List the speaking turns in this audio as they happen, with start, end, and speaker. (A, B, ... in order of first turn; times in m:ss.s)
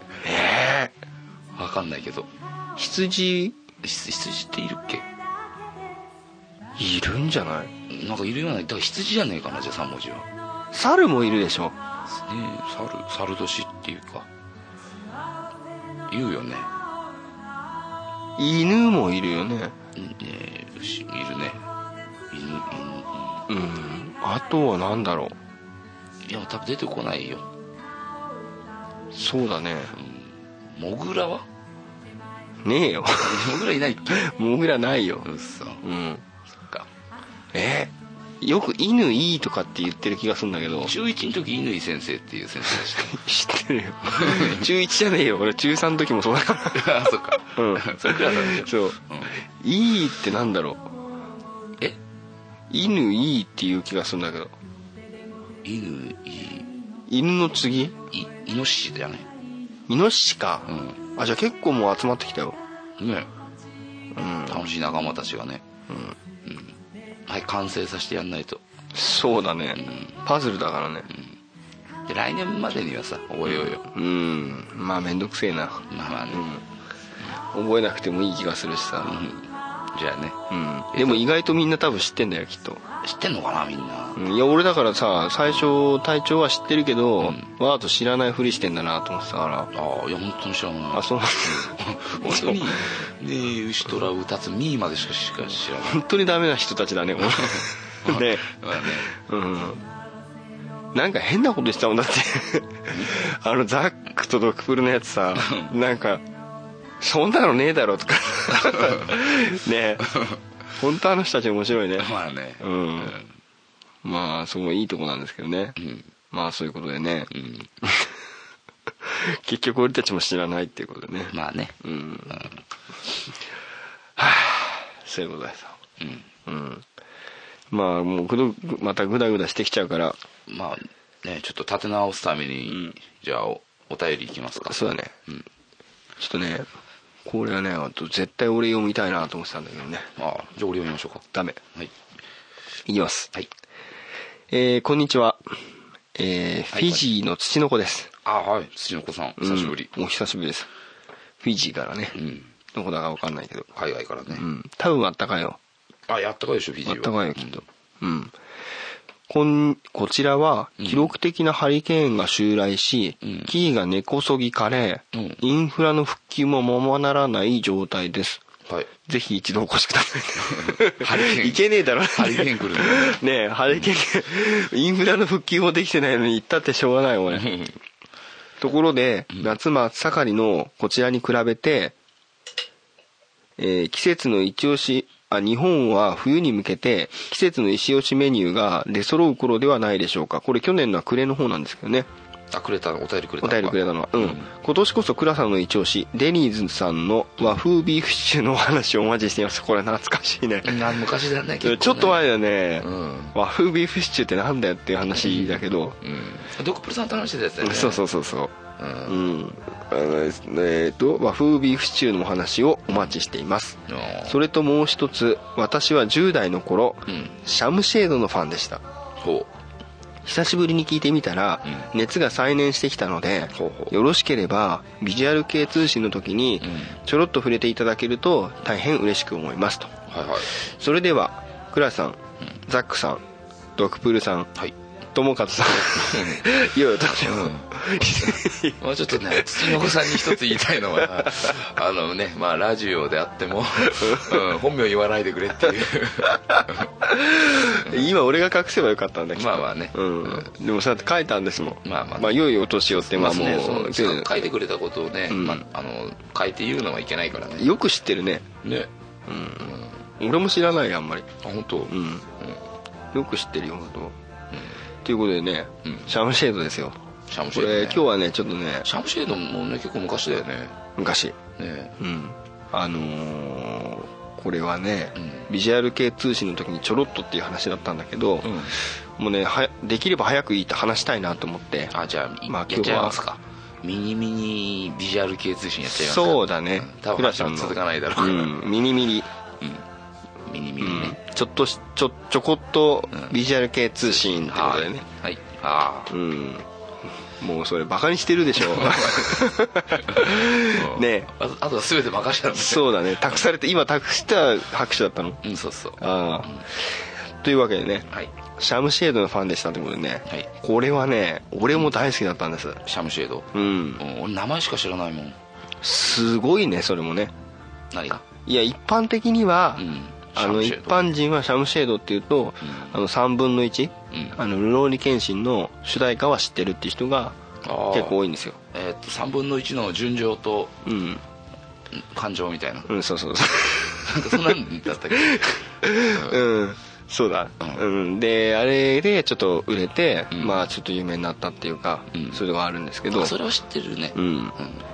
0:00.2-0:00.9 A
0:01.5-0:02.3 B
0:02.8-0:03.6 A
0:03.8-0:05.0 B
0:06.8-0:07.7 A
0:07.9-0:10.2 B
0:10.7-0:11.8 A
0:12.1-0:14.3 B
0:16.1-0:16.7 B
0:18.4-0:19.7 A
0:19.9-0:21.6 B
0:22.3-0:23.4 B
0:23.5-0:25.4 A
0:26.2-0:27.4 B
0:29.1-0:29.9 A
0:29.9-0:31.4 B
0:32.6-0:35.3 A
0:33.2-0:34.3 B
0:35.2-0:35.8 B
0:35.8-0:36.2 A
0:37.5-0:40.9 A
0:40.8-0:43.2 B
0:42.7-0:46.9 A
0:44.1-0:44.7 B
0:46.7-0:49.4 B
0:47.5-0:50.9 A
0:52.7-0:54.5 A
0:55.6-0:56.7 B
0:57.1-0:58.0 A
0:58.1-0:59.3 B
0:59.9-1:02.6 A
1:00.6-1:01.0 B
1:03.0-1:03.3 B
1:04.1-1:04.6 A
1:04.4-1:05.6 B
1:05.9-1:06.2 A
1:06.4-1:06.8 B
1:07.3-1:08.6 B
1:08.9-1:11.1 A
1:09.8-1:10.2 B
1:11.1-1:11.4 B
1:12.1-1:13.8 B
1:13.4-1:16.6 A
1:15.9-1:16.5 B
1:17.5-1:19.2 A
1:19.0-1:20.4 B
1:20.5-1:22.8 A
1:20.9-1:21.2 B
1:23.0-1:24.2 B
1:24.1-1:29.7 A
1:27.2-1:27.5 B
1:29.7-1:36.0 B
1:30.9-1:32.9 A
1:35.8-1:39.8 A
1:37.2-1:39.1 B
1:40.9-1:46.2 A
1:45.4-1:45.7 B
1:47.0-1:50.1 A
1:48.6-1:49.1 B
1:50.1-1:50.4 B
1:50.8-1:53.1 A
1:52.0-1:53.4 B
1:54.0-1:55.8 A
1:55.8-1:56.1 B
1:56.3-1:57.3 A
1:57.3-1:57.7 B
1:57.8-1:58.1 A
1:59.0-2:02.4 A
2:01.3-2:01.8 B
2:02.3-2:02.6 B
2:04.2-2:05.8 A
2:06.0-2:06.3 B
2:06.4-2:06.8 A
2:07.7-2:10.2 A
2:10.5-2:15.4 B
2:14.6-2:15.1 A
2:16.2-2:16.7 A
2:17.2-2:20.1 A
2:20.2-2:21.9 B
2:21.3-2:21.6 A
2:22.8-2:23.3 A
2:24.5-2:25.6 A
2:26.1-2:28.1 A
2:26.7-2:27.0 B
2:28.2-2:29.9 B
2:29.4-2:30.7 A
2:31.4-2:32.2 A
2:32.1-2:32.5 B
2:32.7-2:33.7 A
2:33.7-2:34.4 B
2:34.3-2:35.6 A
2:36.1-2:37.6 B
2:36.8-2:38.3 A
2:39.3-2:48.4 A
2:40.8-2:41.1 B
2:43.2-2:43.5 B
2:45.1-2:45.4 B
2:49.0-2:57.5 A
2:50.4-2:53.2 B
2:57.3-2:57.8 B
2:58.6-3:01.9 A
3:03.6-3:12.1 A
3:12.5-3:14.5 B
3:13.4-3:21.0 A
3:20.6-3:23.3 B
3:21.6-3:26.0 A
3:25.2-3:28.1 B
3:27.6-3:28.5 A
3:28.8-3:29.2 B
3:29.0-3:38.8 A
3:33.9-3:34.4 B
3:37.1-3:37.4 B
3:39.2-3:39.5 B
3:40.2-3:49.9 A
3:43.5-3:43.9 B
3:46.6-3:47.0 B
3:50.1-3:50.5 B
3:50.5-3:53.2 A
3:53.8-3:54.5 A
3:55.1-4:01.6 A
3:55.8-3:56.5 B
3:57.0-4:06.9 B
4:03.9-4:04.4 A
4:06.3-4:14.4 A
4:07.7-4:08.1 B
4:09.3-4:10.5 B
4:11.8-4:17.7 B
4:15.3-4:15.6 A
4:17.5-4:18.5 A
4:18.6-4:18.9 B
4:19.3-4:21.3 A
4:19.6-4:20.0 B
4:21.4-4:22.6 B
4:21.9-4:22.3 A
4:23.1-4:24.2 A
4:25.0-4:27.0 A
4:27.3-4:28.1 B
4:27.5-4:28.9 A
4:28.8-4:30.8 B
4:31.0-4:31.4 A
4:31.6-4:31.9 B
4:32.0-4:41.9 A
4:35.2-4:35.5 B
4:38.4-4:38.8 B
4:41.9-4:48.6 B
4:42.5-4:43.2 A
4:45.9-4:49.3 A
4:50.4-4:51.2 B
4:50.8-4:55.0 A
4:54.0-4:56.1 B
4:56.1-4:56.7 A
4:57.4-5:01.3 A
4:58.6-5:03.4 B
5:02.5-5:05.4 A
5:05.4-5:06.6 B
5:06.0-5:12.8 A
5:12.8-5:15.4 B
5:13.5-5:14.0 A
5:15.8-5:17.3 A
5:17.9-5:18.2 B
5:18.4-5:27.4 A
5:19.8-5:21.1 B
5:22.6-5:23.0 B
5:24.1-5:24.4 B
5:27.6-5:28.2 B
5:27.9-5:28.6 A
5:28.7-5:30.8 B
5:30.8-5:31.2 A
5:31.9-5:32.9 B
5:32.9-5:34.6 A
5:34.0-5:36.4 B
5:35.1-5:43.4 A
5:40.3-5:40.6 B
5:42.1-5:42.4 B
5:43.1-5:44.8 B
5:44.1-5:44.5 A